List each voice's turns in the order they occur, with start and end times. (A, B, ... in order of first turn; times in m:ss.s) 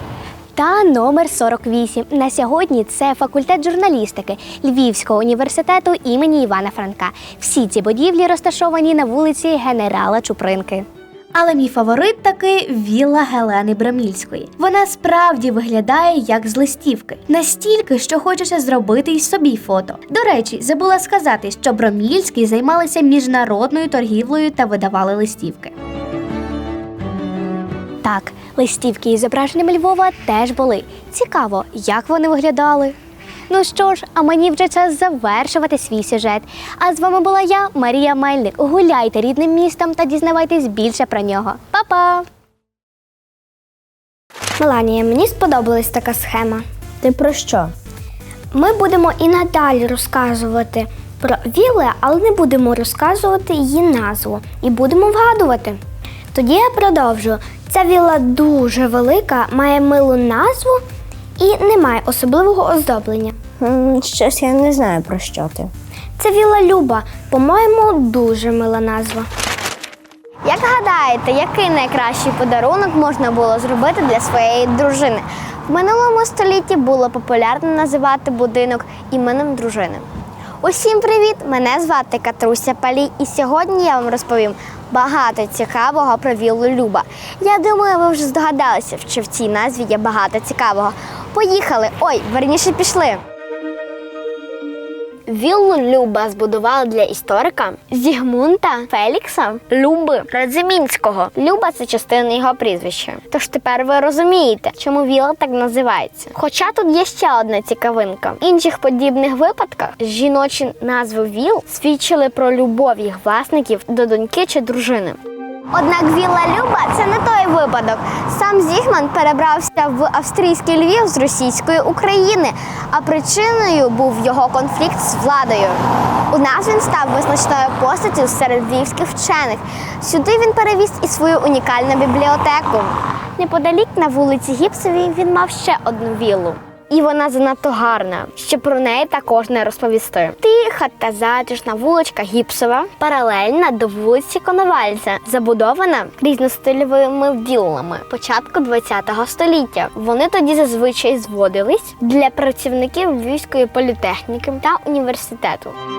0:00.6-0:25.7 A
0:28.0-0:33.0 A
0:33.5-0:42.3 A
0:44.6-0:46.6 B
0:47.0-0:47.7 C
0:48.5-0:55.8 B
0:56.3-1:00.9 B
1:01.4-1:03.4 B
1:03.6-1:05.7 C
1:06.2-1:09.3 B
1:10.4-1:20.1 D
1:20.6-1:33.2 D
1:35.3-1:55.2 D
1:55.7-2:05.8 D
2:06.3-2:35.8 D